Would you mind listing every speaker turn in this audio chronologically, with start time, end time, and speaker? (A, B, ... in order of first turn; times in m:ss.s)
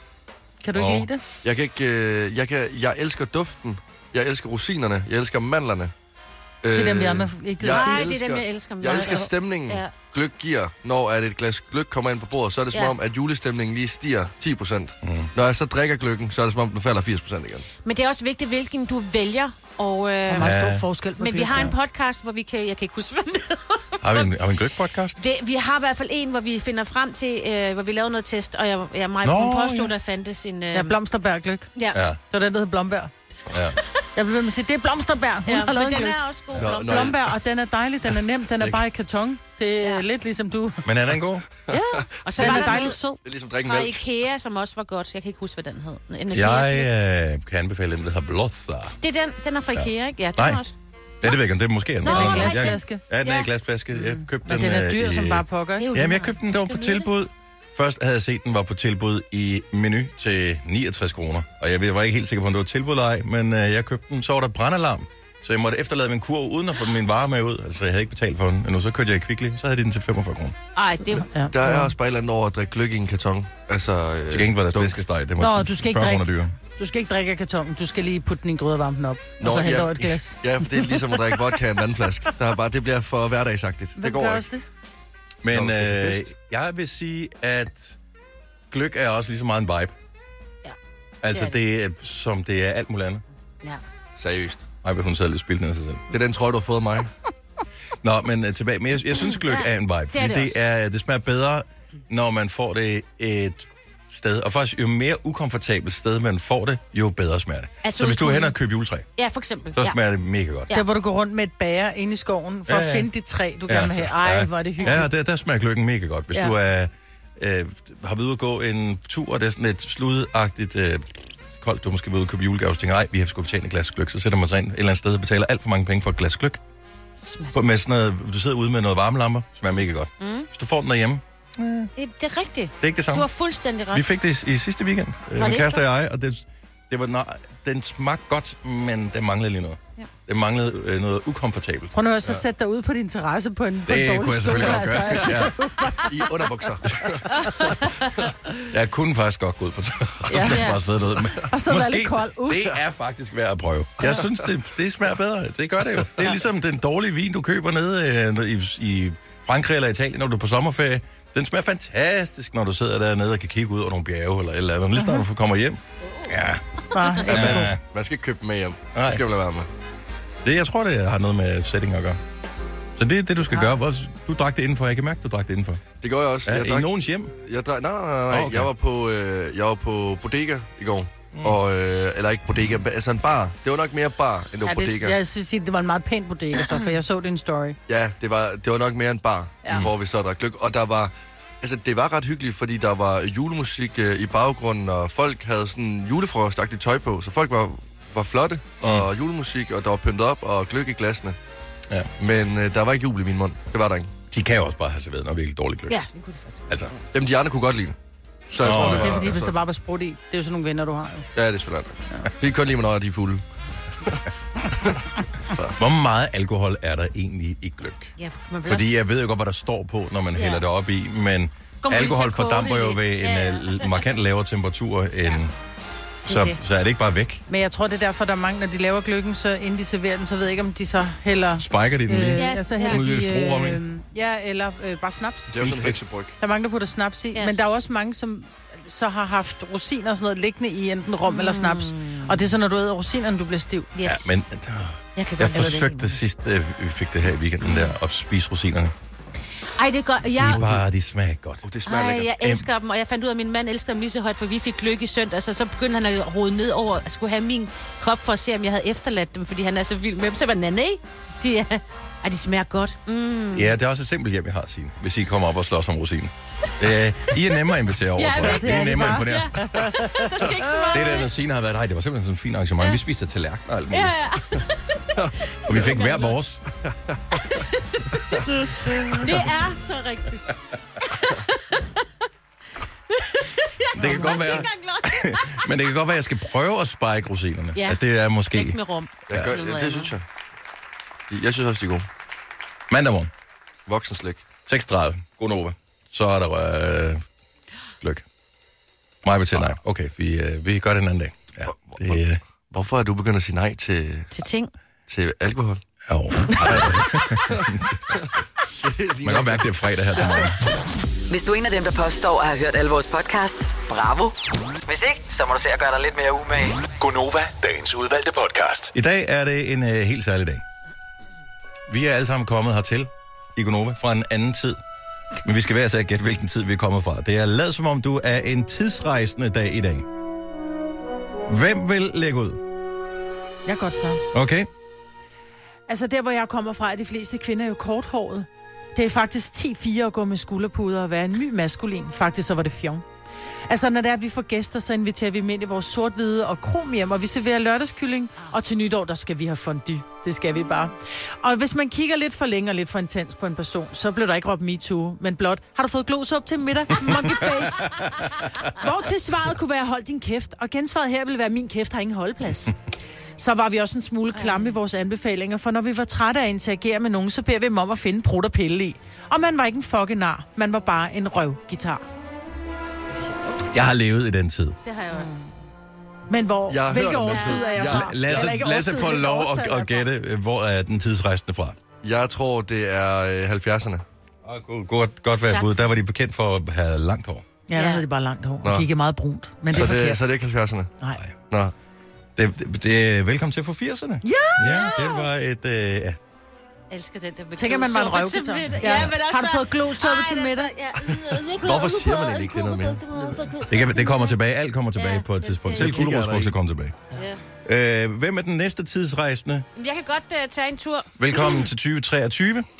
0:00.6-0:01.2 A
0:00.7-0:01.1 B
0:01.4-0:05.9 C
0:06.6-0:17.7 C
0:06.8-0:08.2 A
0:07.7-0:09.9 D
0:15.0-0:15.3 B
0:17.8-0:20.5 D
0:20.3-0:21.7 A
0:20.3-0:20.8 B
0:21.2-0:24.3 D
0:24.0-0:25.2 B
0:25.2-0:31.0 D
0:29.2-0:29.9 B
0:30.7-0:31.7 A
0:31.8-0:32.0 D
0:31.9-0:32.2 B
0:32.3-0:33.1 A
0:33.5-0:33.8 B
0:34.2-0:40.8 A
0:35.5-0:37.2 D
0:36.6-0:37.3 C
0:40.8-0:41.5 B
0:41.7-0:44.0 C
0:41.7-0:43.2 A
0:42.2-0:43.0 D
0:43.6-0:46.9 D
0:46.3-0:49.0 B
0:49.0-0:50.7 D
0:49.7-0:50.6 B
0:51.2-1:10.6 B
0:52.0-0:53.0 A
0:52.0-0:53.5 D
0:54.0-0:55.9 A
0:55.8-0:57.1 D
1:10.8-1:11.3 D
1:11.0-1:11.9 A
1:11.5-1:15.0 C
1:14.3-1:16.5 B
1:15.4-1:20.8 A
1:19.4-1:24.5 C
1:24.0-1:24.6 A
1:25.4-1:28.0 B
1:25.5-1:26.3 C
1:28.7-1:30.0 B
1:31.2-1:33.2 B
1:31.3-1:31.6 D
1:34.2-1:34.7 C
1:34.8-1:36.0 B
1:36.1-1:37.1 C
1:38.0-1:49.1 B
1:39.2-1:40.6 D
1:47.8-1:48.6 D
1:49.2-1:50.0 D
1:49.8-1:50.7 B
1:50.7-1:55.0 A
1:52.7-1:53.1 B
1:53.7-2:06.6 B
2:07.2-2:07.6 D
2:07.5-2:11.9 B
2:10.2-2:10.5 D
2:12.0-2:14.0 D
2:12.8-2:13.3 B
2:13.9-2:21.9 B
2:15.4-2:15.9 D
2:21.9-2:26.1 A
2:23.9-2:25.6 B
2:25.2-2:25.4 C
2:26.0-2:28.2 C
2:28.7-2:46.6 B
2:30.3-2:30.7 A
2:30.4-2:30.8 D
2:31.5-2:32.7 A
2:45.0-2:45.2 A
2:46.9-2:47.7 A
2:47.3-2:47.8 B
2:47.3-2:49.7 C
2:48.9-2:49.2 B
2:50.4-2:52.2 B
2:53.0-2:55.8 B
2:56.0-3:05.2 C
2:56.4-2:57.3 B
2:58.3-2:58.7 B
3:01.3-3:01.6 B
3:04.6-3:07.8 A
3:07.9-3:21.4 C
3:18.8-3:19.1 B
3:22.2-3:24.1 C
3:24.3-3:26.0 B
3:25.9-3:27.0 D
3:26.7-3:26.9 B
3:27.1-3:28.0 C
3:28.5-3:29.5 C
3:28.6-3:29.4 B
3:28.8-3:31.3 A
3:31.4-3:33.4 C
3:34.8-3:35.8 C
3:35.8-3:38.1 B
3:38.2-3:39.0 D
3:38.7-3:45.5 B
3:40.4-3:40.6 D
3:41.8-3:44.0 D
3:46.3-3:47.4 B
3:47.5-3:55.6 A
3:51.6-3:53.8 B
3:52.4-3:53.0 D
3:55.5-3:56.3 C
3:55.6-3:56.0 B
3:56.4-4:03.9 A
3:57.4-3:57.8 D
4:01.3-4:02.4 D
4:04.0-4:04.4 D
4:04.0-4:08.9 B
4:05.2-4:06.2 D
4:07.6-4:07.9 D
4:09.8-4:10.6 D
4:10.4-4:11.6 B
4:10.4-4:10.8 C
4:11.6-4:12.3 C
4:11.9-4:23.7 D
4:12.4-4:12.6 B
4:23.5-4:29.8 B
4:28.2-4:31.3 D
4:28.6-4:29.2 A
4:29.8-4:30.2 A
4:30.9-4:34.2 B
4:33.9-4:36.4 D
4:35.2-4:35.7 C
4:35.7-4:36.6 B
4:37.1-4:37.6 C
4:37.8-4:42.0 D
4:43.1-4:45.6 D
4:44.0-4:48.8 B
4:47.8-4:50.1 D
4:49.3-4:50.2 C
4:51.3-4:52.1 C
4:52.9-4:53.3 B
4:53.9-4:54.5 C
4:54.7-4:57.2 B
4:58.0-4:58.3 B
4:59.2-5:02.4 B
5:01.7-5:04.3 C
5:04.3-5:04.7 D
5:05.1-5:05.8 C
5:06.1-5:08.2 B
5:06.6-5:10.5 C
5:09.2-5:10.6 B
5:11.3-5:16.8 E
5:16.9-5:18.9 F
5:18.9-5:20.6 B
5:21.9-5:24.8 B
5:25.4-5:30.1 B
5:31.5-5:32.6 B
5:33.7-5:34.2 A
5:34.3-5:34.7 B
5:35.9-5:43.0 A
5:43.7-6:02.8 A
6:03.4-6:12.0 A
6:04.3-6:04.8 D
6:13.1-6:13.6 D
6:13.7-6:14.8 B
6:14.8-6:15.5 D
6:15.1-6:15.5 A
6:16.3-6:20.0 A
6:16.7-6:18.5 C
6:17.2-6:18.0 D
6:17.9-6:21.8 B
6:22.0-6:24.0 C
6:24.4-6:27.4 B
6:25.5-6:25.9 D
6:27.7-6:30.2 A
6:27.7-6:28.0 D
6:29.7-6:30.9 C
6:32.4-6:36.2 B
6:34.2-6:35.0 A
6:34.6-6:35.2 D
6:36.9-6:44.4 D
6:37.6-6:40.7 A
6:38.8-6:39.1 B
6:41.1-6:43.5 C
6:43.7-6:47.0 B
6:45.0-6:46.0 D
6:45.7-6:46.5 C
6:47.1-6:47.4 D
6:47.6-6:49.7 B
6:49.8-6:51.7 D
6:51.2-6:52.7 B